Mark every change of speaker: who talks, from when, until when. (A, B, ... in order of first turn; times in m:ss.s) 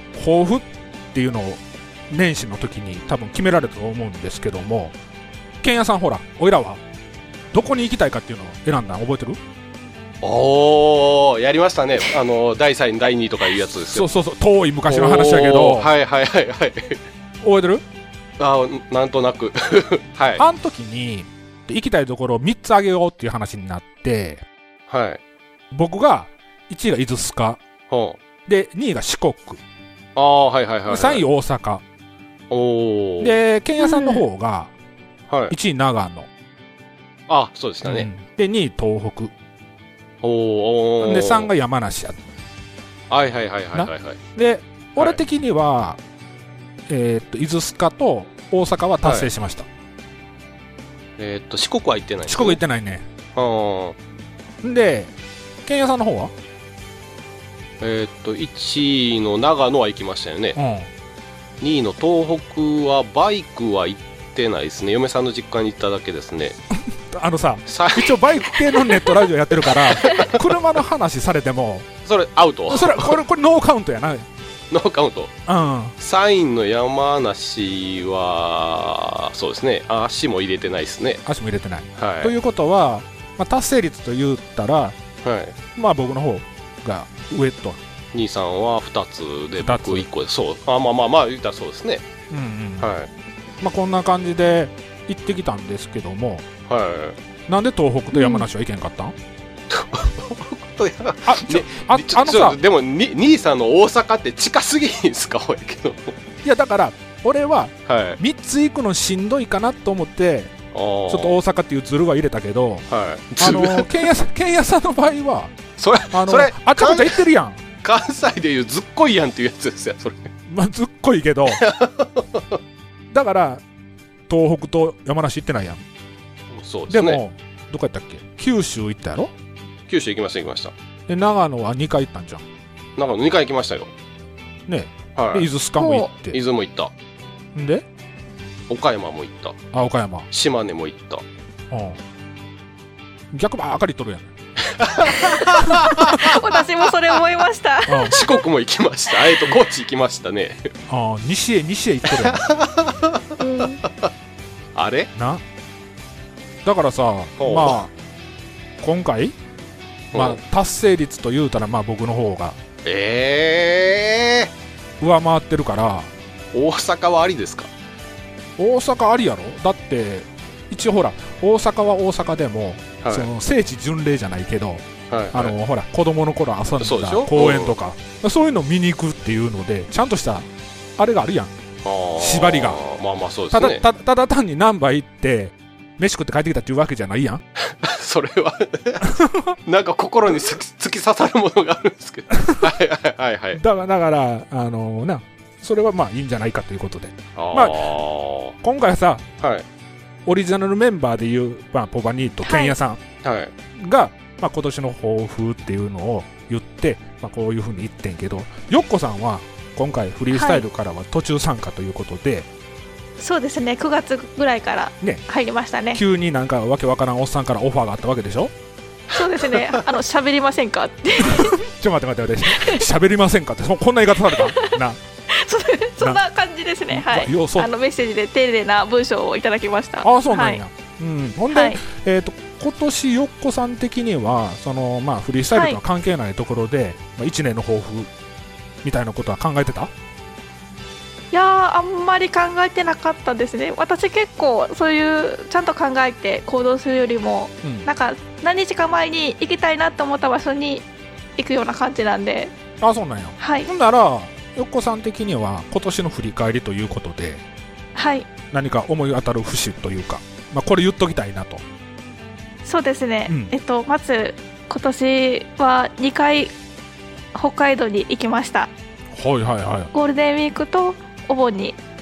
0:00.1-0:05.0 A
0:05.6-0:06.8 A
0:07.5-0:09.4 A
0:10.2-0:14.1 B
0:13.9-0:15.9 A
0:14.9-0:17.0 B
0:17.4-0:17.8 A
0:18.4-0:20.4 B
0:20.4-0:24.4 A
0:24.9-0:25.2 B
0:25.7-0:27.6 A
0:27.9-0:28.2 B
0:28.5-0:29.6 A
0:30.2-0:31.2 B
0:30.9-0:31.8 A
0:32.5-0:33.4 B
0:33.2-0:34.7 A
0:33.8-0:34.2 C
0:35.3-0:35.6 B
0:35.5-0:36.3 A
0:37.3-0:38.1 B
0:37.8-0:39.3 A
0:40.2-0:41.5 B
0:41.0-0:42.2 A
0:43.1-0:44.2 B
0:43.7-0:46.0 A
0:46.9-0:49.7 A
0:49.0-0:49.3 B
0:51.2-0:52.6 B
0:52.3-0:53.0 A
0:53.4-0:54.0 B
0:54.6-0:55.1 A
0:55.6-0:56.3 A
0:57.8-1:00.6 B
1:00.6-1:00.9 A
1:01.6-1:06.6 B
1:06.7-1:11.9 A
1:07.7-1:08.1 B
1:09.6-1:10.4 B
1:12.1-1:13.2 B
1:12.7-1:14.3 A
1:14.7-1:15.3 B
1:15.5-1:15.9 A
1:16.0-1:21.2 B
1:21.3-1:25.0 A
1:22.0-1:22.3 B
1:25.2-1:25.6 B
1:25.8-1:27.8 A
1:28.1-1:32.0 B
1:29.6-1:30.1 A
1:32.3-1:32.9 A
1:32.8-1:33.1 B
1:33.6-1:36.4 A
1:36.7-1:37.2 B
1:37.5-1:39.2 A
1:38.1-1:38.4 C
1:39.7-1:46.2 B
1:41.2-1:42.6 A
1:46.4-1:50.5 A
1:47.9-1:48.2 B
1:50.7-1:51.4 B
1:51.1-1:52.8 A
1:52.9-1:54.1 B
1:53.4-1:55.5 A
1:55.8-1:57.2 B
1:56.1-1:57.6 A
1:57.8-2:00.3 B
2:00.5-2:01.6 A
2:01.5-2:02.6 B
2:03.1-2:03.6 A
2:04.3-2:05.8 A
2:06.5-2:07.2 B
2:06.9-2:09.3 A
2:09.9-2:10.7 B
2:11.1-2:12.4 A
2:13.0-2:13.9 B
2:14.7-2:16.4 A
2:15.2-2:15.5 B
2:15.8-2:16.1 C
2:16.3-2:16.9 B
2:17.6-2:17.8 A
2:18.7-2:19.6 B
2:19.7-2:20.3 A
2:20.3-2:21.2 B
2:21.7-2:22.0 A
2:23.3-2:24.3 A
2:24.7-2:26.4 B
2:25.1-2:25.4 C
2:25.6-2:26.2 A
2:26.1-2:28.4 C
2:27.9-2:28.2 A
2:28.1-2:30.7 B
2:30.9-2:32.4 A
2:32.2-2:33.2 B
2:33.4-2:33.8 C
2:34.8-2:35.1 B
2:35.2-2:35.4 A
2:36.6-2:37.9 A
2:37.4-2:37.8 B
2:38.8-2:39.4 A
2:40.1-2:40.4 B
2:40.1-2:42.6 A
2:42.8-2:44.5 B
2:45.0-2:46.1 A
2:46.5-2:47.7 B
2:48.6-3:01.5 A
2:53.0-2:53.3 B
2:55.1-2:55.6 B
2:56.8-2:57.8 B
3:01.8-3:03.8 B
3:02.2-3:02.8 A
3:03.5-3:07.4 A
3:07.6-3:09.2 B
3:09.0-3:09.6 A
3:09.7-3:13.6 B
3:13.6-3:17.8 A
3:17.4-3:18.5 B
3:18.6-3:19.2 A
3:20.3-3:23.0 A
3:22.4-3:22.8 C
3:23.2-3:23.5 B
3:23.8-3:32.5 A
3:30.3-3:30.6 C
3:33.2-3:36.0 C
3:35.9-3:38.5 A
3:39.1-3:39.6 B
3:39.1-3:41.6 C
3:41.2-3:45.0 A
3:42.6-3:42.8 C
3:44.3-3:44.8 C
3:45.3-3:50.6 C
3:46.9-3:47.7 A
3:50.0-3:58.1 A
3:51.5-3:51.8 C
3:55.5-3:55.8 C
3:58.8-3:59.9 A
4:01.3-4:10.8 C
4:07.6-4:07.9 A
4:11.4-4:12.5 C
4:12.8-4:17.4 A
4:13.4-4:13.7 C
4:18.0-4:18.3 C
4:18.5-4:21.6 A
4:22.6-4:26.5 C
4:23.3-4:23.5 A
4:27.4-4:28.7 C
4:29.1-4:29.9 A
4:29.9-4:31.8 C